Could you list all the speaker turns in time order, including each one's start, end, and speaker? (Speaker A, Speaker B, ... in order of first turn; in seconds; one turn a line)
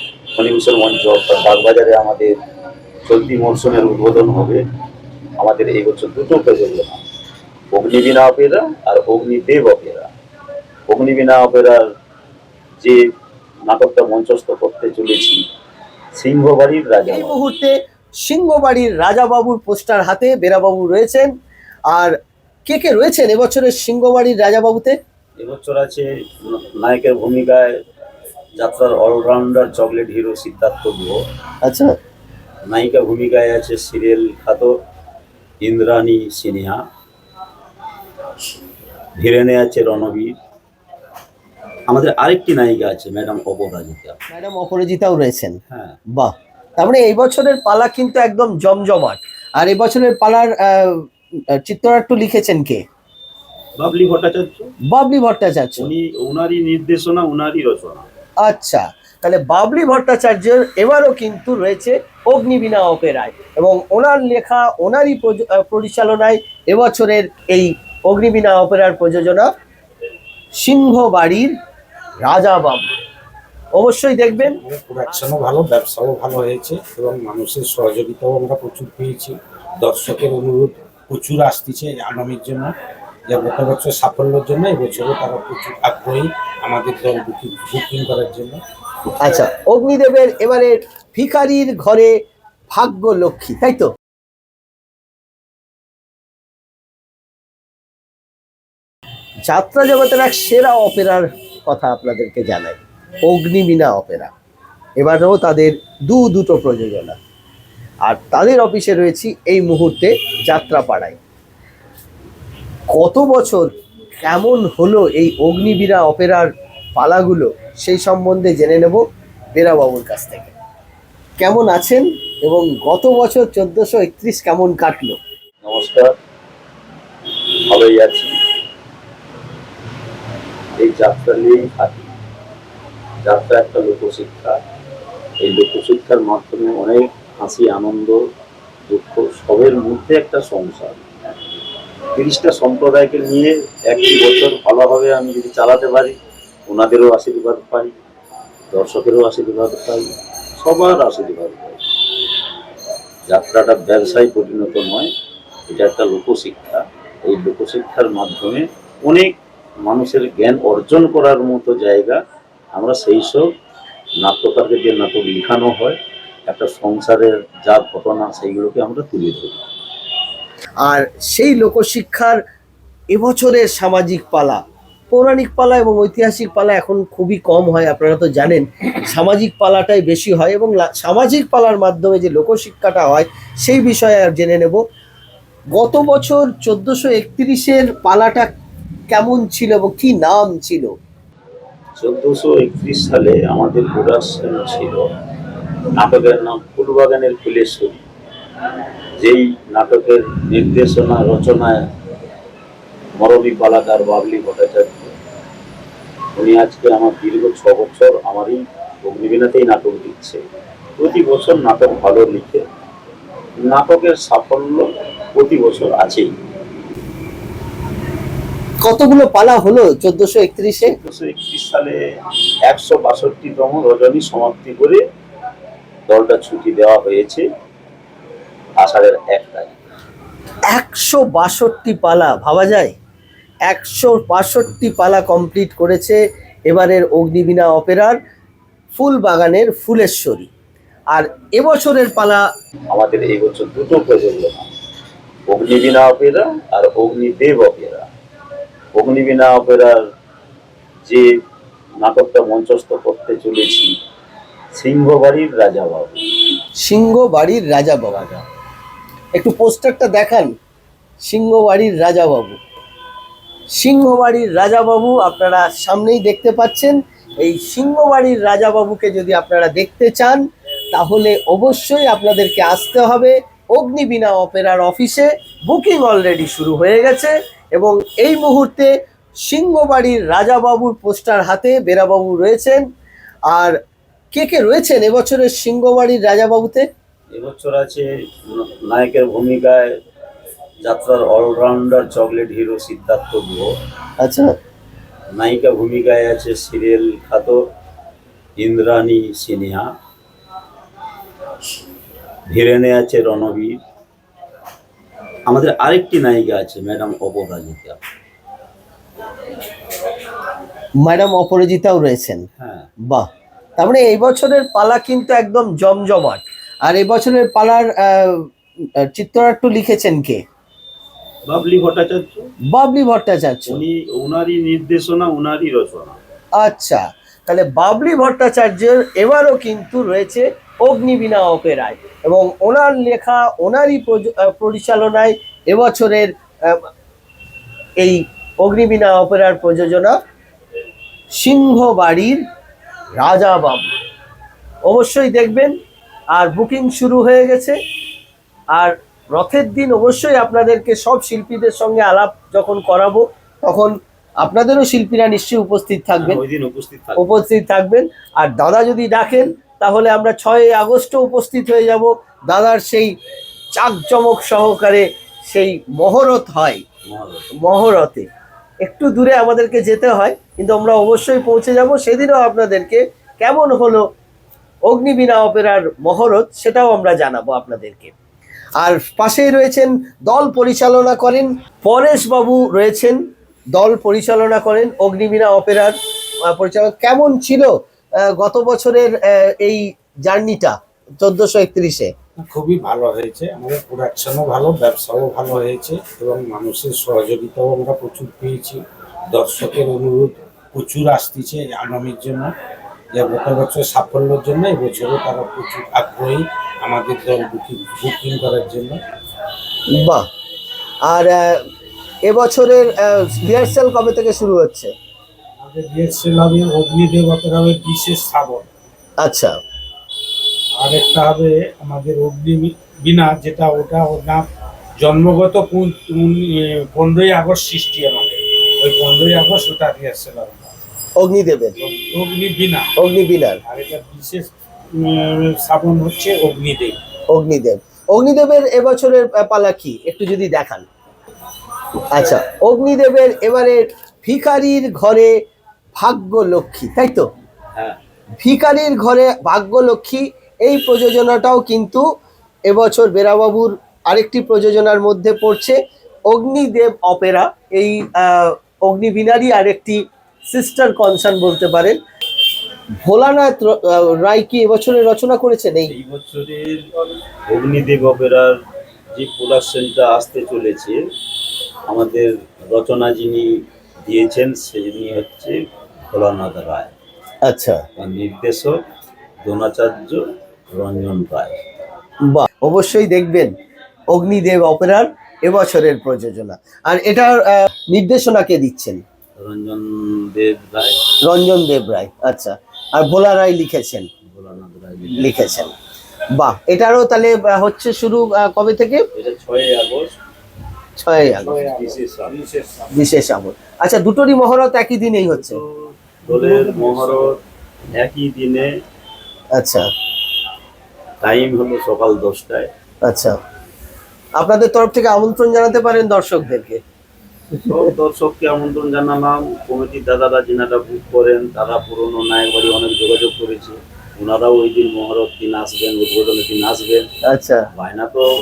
Speaker A: 0.3-2.3
Speaker A: 3.0-4.6
Speaker A: 5.4-7.0
Speaker A: 7.7-10.1
Speaker A: 10.9-11.8
Speaker A: 13.7-15.4
Speaker A: 16.1-17.4
Speaker B: 17.1-21.3
Speaker B: 21.9-22.1
Speaker B: 22.7-25.0
Speaker A: 25.4-27.8
Speaker A: 28.6-31.2
Speaker B: 31.6-31.9
Speaker A: 32.7-34.8
Speaker A: 35.6-36.8
Speaker A: 39.2-40.3
Speaker A: 41.9-44.2
Speaker B: 44.3-45.6
Speaker A: 45.7-46.0
Speaker B: 46.1-52.8
Speaker A: 53.8-54.7
Speaker B: 54.9-55.9
Speaker A: 55.8-58.1
Speaker B: 58.4-69.5
Speaker B: 70.6-71.5
Speaker B: 72.2-72.9
Speaker B: 73.7-74.6
Speaker C: 74.4-82.7
Speaker C: 83.3-88.6
Speaker B: 89.1-92.1
Speaker B: 92.7-93.9
Speaker B: 99.5-104.3
Speaker B: 105.0-107.2
Speaker B: 108.0-111.2
Speaker B: 112.9-113.7
Speaker B: 114.2-119.0
Speaker B: 119.5-120.5
Speaker B: 121.4-125.2
Speaker A: 125.6-126.1
Speaker A: 127.6-128.3
Speaker A: 130.8-132.1
Speaker A: 133.2-134.6
Speaker A: 135.4-138.2
Speaker A: 138.9-141.0
Speaker A: 142.1-146.2
Speaker A: 146.7-147.9
Speaker A: 148.7-150.1
Speaker A: 150.6-151.8
Speaker A: 153.3-155.1
Speaker A: 155.7-162.2
Speaker A: 162.7-163.4
Speaker A: 164.2-169.7
Speaker B: 170.8-172.4
Speaker B: 173.1-184.8
Speaker B: 185.7-188.5
Speaker B: 189.1-190.9
Speaker A: 192.0-195.1
Speaker A: 195.9-198.0
Speaker A: 199.2-201.9
Speaker A: 203.2-205.1
Speaker A: 206.3-210.4
Speaker A: 211.0-212.6
Speaker A: 213.6-216.3
Speaker B: 218.8-220.9
Speaker A: 220.8-222.0
Speaker A: 222.7-225.0
Speaker A: 226.1-227.4
Speaker A: 228.8-229.8
Speaker B: 230.7-232.9
Speaker B: 233.7-238.2
Speaker B: 238.9-240.5
Speaker B: 241.1-242.4
Speaker A: 242.9-244.7
Speaker A: 245.5-248.1
Speaker A: 248.9-250.0
Speaker A: 252.0-253.9
Speaker A: 254.7-256.3
Speaker B: 256.8-258.2
Speaker A: 258.1-258.5
Speaker B: 259.3-260.5
Speaker B: 261.2-262.6
Speaker B: 263.8-278.9
Speaker B: 279.5-282.8
Speaker B: 283.5-283.8
Speaker B: 284.3-286.9
Speaker A: 287.3-289.9
Speaker A: 290.8-293.7
Speaker B: 294.2-294.5
Speaker A: 295.3-297.6
Speaker A: 298.6-299.9
Speaker A: 302.5-303.8
Speaker A: 305.5-308.0
Speaker B: 311.0-312.4
Speaker A: 312.6-312.9
Speaker B: 313.8-318.4
Speaker B: 319.0-320.4
Speaker A: 321.5-322.5
Speaker B: 322.7-323.8
Speaker A: 323.7-326.2
Speaker B: 326.6-336.8
Speaker B: 338.0-340.1
Speaker B: 341.3-342.4
Speaker B: 343.2-343.9
Speaker B: 344.9-345.7
Speaker B: 346.3-347.8
Speaker B: 348.8-356.4
Speaker A: 356.2-357.3
Speaker B: 357.2-363.1
Speaker B: 363.7-366.8
Speaker A: 367.1-367.5
Speaker B: 367.6-368.3
Speaker B: 368.8-374.0
Speaker B: 374.9-378.1
Speaker B: 378.8-383.2
Speaker B: 383.7-387.7
Speaker B: 388.2-392.1
Speaker C: 392.4-398.8
Speaker C: 399.3-402.5
Speaker C: 403.1-409.0
Speaker B: 409.9-410.2
Speaker B: 411.1-411.6
Speaker B: 412.3-414.9
Speaker C: 415.6-418.7
Speaker B: 419.2-419.5
Speaker C: 420.8-424.4
Speaker C: 425.0-430.7
Speaker B: 431.2-431.7
Speaker C: 431.8-432.9
Speaker B: 433.0-433.6
Speaker C: 433.7-437.0
Speaker B: 437.3-440.9
Speaker B: 442.0-445.3
Speaker B: 446.0-447.2
Speaker B: 448.4-452.0
Speaker B: 452.7-455.8
Speaker B: 456.3-460.0
Speaker B: 460.5-462.0
Speaker B: 463.0-465.9
Speaker A: 465.9-466.9
Speaker A: 467.5-468.6
Speaker A: 469.1-471.0
Speaker A: 471.9-473.5
Speaker A: 474.0-475.6
Speaker A: 476.1-476.9
Speaker B: 477.4-477.8
Speaker A: 478.0-478.8
Speaker A: 479.4-481.6
Speaker B: 482.2-483.5
Speaker B: 484.1-489.0
Speaker A: 489.4-491.0
Speaker B: 491.2-494.1
Speaker A: 494.3-495.7
Speaker B: 495.1-495.7
Speaker B: 496.4-499.0
Speaker A: 499.1-500.1
Speaker B: 501.0-501.6
Speaker A: 501.4-502.4
Speaker C: 501.5-502.8
Speaker B: 502.9-505.6
Speaker A: 505.3-507.4
Speaker C: 506.3-507.2
Speaker A: 508.0-508.7
Speaker B: 509.6-509.9
Speaker A: 511.2-512.7
Speaker B: 513.0-513.4
Speaker B: 514.4-516.8
Speaker A: 517.6-527.1
Speaker B: 527.3-527.6
Speaker A: 527.7-528.3